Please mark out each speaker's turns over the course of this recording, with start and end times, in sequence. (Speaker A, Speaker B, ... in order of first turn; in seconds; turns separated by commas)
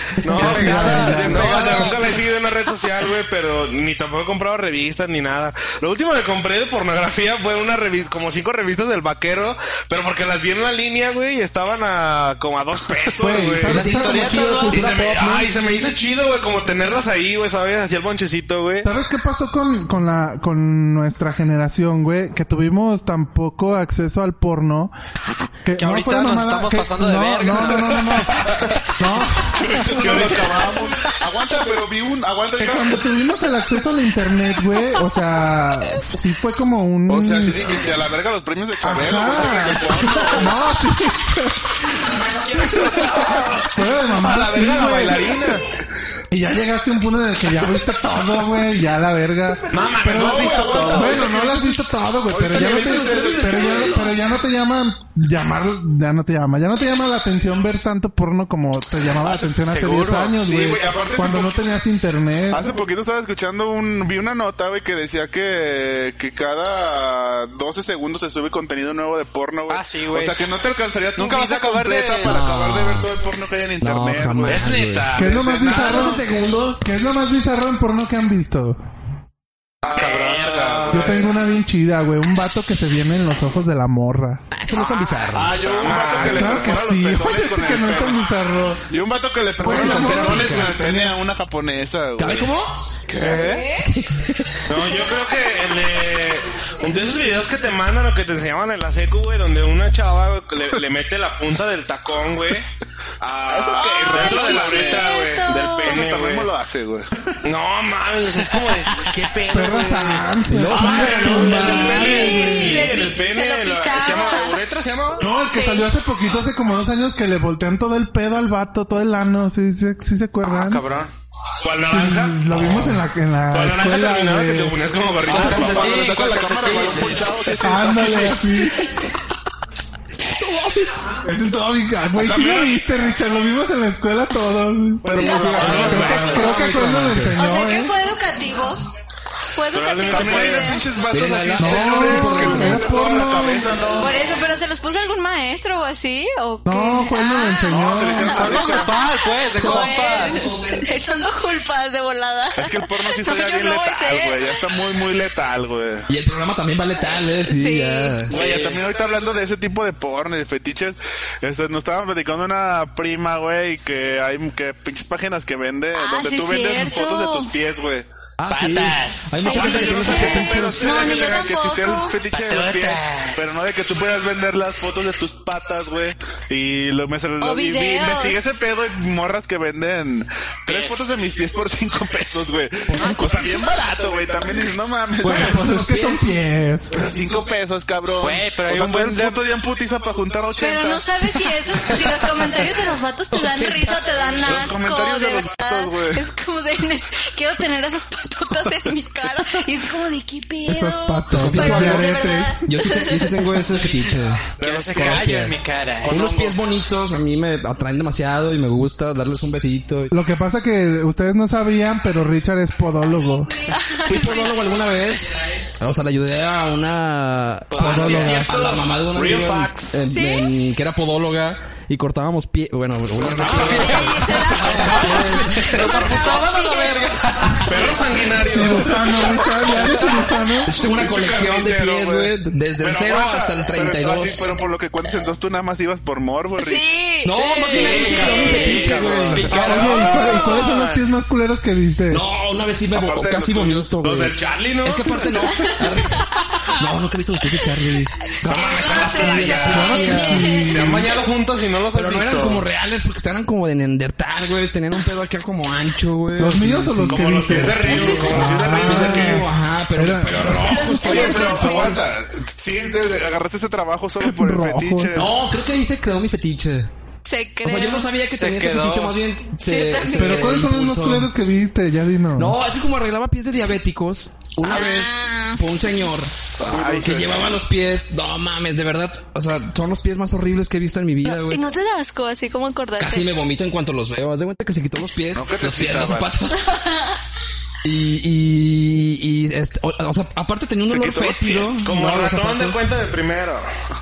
Speaker A: 0.2-14.0, Speaker B: 0.3-1.8, Speaker C: 0.3-1.9, Speaker D: 0.3-2.2, Speaker B: 13.2-15.1, Speaker D: 13.6-14.8, Speaker C: 13.7-15.5, Speaker A: 14.7-18.9, Speaker B: 18.8-24.9, Speaker B: 25.6-30.6, Speaker D: 25.8-28.7, Speaker E: 29.6-33.0, Speaker A: 29.9-30.4, Speaker B: 32.6-37.8, Speaker E: 37.1-40.6, Speaker B: 38.8-41.8, Speaker C: 42.4-43.7, Speaker B: 42.6-43.1, Speaker B: 43.7-45.4, Speaker A: 44.1-45.6, Speaker B: 46.3-62.8, Speaker A: 49.7-51.3, Speaker E: 50.1-51.6, Speaker E: 52.3-54.1, Speaker C: 52.6-54.1, Speaker D: 59.3-60.4, Speaker E: 60.4-61.7, Speaker E: 62.5-76.0, Speaker D: 69.7-70.4, Speaker D: 71.2-72.4, Speaker C: 72.3-73.1, Speaker C: 73.8-76.8, Speaker A: 74.5-76.2, Speaker B: 75.1-76.2, Speaker B: 76.8-78.8, Speaker E: 79.8-81.3, Speaker D: 79.8-80.9, Speaker A: 79.9-81.4, Speaker B: 80.9-84.4, Speaker C: 84.5-85.8, Speaker E: 84.8-88.3, Speaker A: 85.6-86.8, Speaker B: 86.0-88.8, Speaker E: 88.9-92.5, Speaker B: 89.6-91.0, Speaker C: 89.6-90.9, Speaker C: 92.2-93.0, Speaker E: 93.1-93.7, Speaker F: 93.2-93.9, Speaker C: 93.8-94.7, Speaker A: 94.7-102.7, Speaker A: 103.2-106.5, Speaker E: 103.4-105.2, Speaker F: 103.6-106.0, Speaker E: 105.8-107.1, Speaker A: 107.4-110.2, Speaker B: 109.5-113.0, Speaker C: 110.4-112.3, Speaker A: 110.7-115.3, Speaker F: 111.3-114.6, Speaker B: 115.2-120.8, Speaker F: 115.5-115.9, Speaker D: 120.4-121.1, Speaker A: 121.6-126.1, Speaker B: 121.9-124.8, Speaker D: 125.2-127.4, Speaker E: 125.3-128.6, Speaker B: 127.6-128.9, Speaker C: 130.3-131.1, Speaker B: 131.2-138.0, Speaker E: 132.2-132.8, Speaker E: 135.0-136.9, Speaker F: 135.2-136.6, Speaker C: 135.2-137.4, Speaker A: 135.5-136.7, Speaker F: 137.3-138.9, Speaker F: 139.5-140.9, Speaker A: 139.7-140.8, Speaker E: 140.0-144.3, Speaker C: 141.1-143.0, Speaker B: 141.6-143.7, Speaker F: 143.9-149.1, Speaker B: 146.7-148.5, Speaker E: 147.7-148.9, Speaker D: 148.3-150.5, Speaker C: 149.6-150.8, Speaker F: 149.6-154.6, Speaker E: 152.6-156.1, Speaker C: 156.1-158.4, Speaker F: 157.4-158.3, Speaker D: 158.3-158.9, Speaker E: 158.3-168.1, Speaker F: 165.9-167.5, Speaker C: 168.4-171.1, Speaker D: 168.5-170.3, Speaker F: 169.4-172.2, Speaker E: 169.6-185.7, Speaker D: 172.3-173.6, Speaker F: 177.4-178.5, Speaker D: 180.7-181.2, Speaker C: 182.9-183.5, Speaker C: 185.2-186.3, Speaker B: 185.2-187.0, Speaker E: 186.9-191.1, Speaker D: 188.2-189.5, Speaker F: 190.6-203.6, Speaker C: 193.3-194.0, Speaker E: 194.4-196.3, Speaker B: 200.7-202.6, Speaker C: 201.3-210.1, Speaker D: 203.7-206.6, Speaker E: 204.6-205.2, Speaker B: 210.1-213.6, Speaker F: 213.6-214.7, Speaker C: 214.1-226.2, Speaker D: 217.7-218.8, Speaker B: 217.8-218.5, Speaker A: 217.9-220.0, Speaker F: 220.1-220.5, Speaker D: 223.2-228.1, Speaker F: 223.5-227.2, Speaker A: 223.5-223.8, Speaker A: 227.7-229.3, Speaker B: 228.4-230.8, Speaker D: 229.2-230.2, Speaker C: 230.7-234.5, Speaker E: 230.8-236.9, Speaker F: 236.6-239.0, Speaker C: 237.2-239.8, Speaker D: 237.7-240.6, Speaker A: 238.0-241.0, Speaker E: 238.2-239.8, Speaker B: 239.6-242.2, Speaker C: 242.1-250.6, Speaker E: 242.9-244.0, Speaker A: 244.0-245.4, Speaker F: 245.4-246.4, Speaker F: 248.4-251.0, Speaker A: 248.5-252.7, Speaker B: 249.7-251.1, Speaker C: 251.9-261.9, Speaker B: 256.4-260.9, Speaker A: 257.1-259.5, Speaker F: 257.9-258.4, Speaker F: 260.7-262.0, Speaker E: 261.0-265.3, Speaker B: 264.2-265.3, Speaker C: 265.1-266.9, Speaker F: 267.2-268.2, Speaker C: 267.6-271.3, Speaker D: 268.2-269.2, Speaker F: 269.6-270.6, Speaker B: 270.1-272.6, Speaker C: 272.4-281.7, Speaker F: 274.6-275.7, Speaker E: 276.6-277.6, Speaker F: 281.2-283.3, Speaker C: 283.0-286.7, Speaker E: 285.3-286.3, Speaker F: 286.6-287.2, Speaker C: 287.8-292.8, Speaker E: 290.9-291.7, Speaker A: 291.6-293.7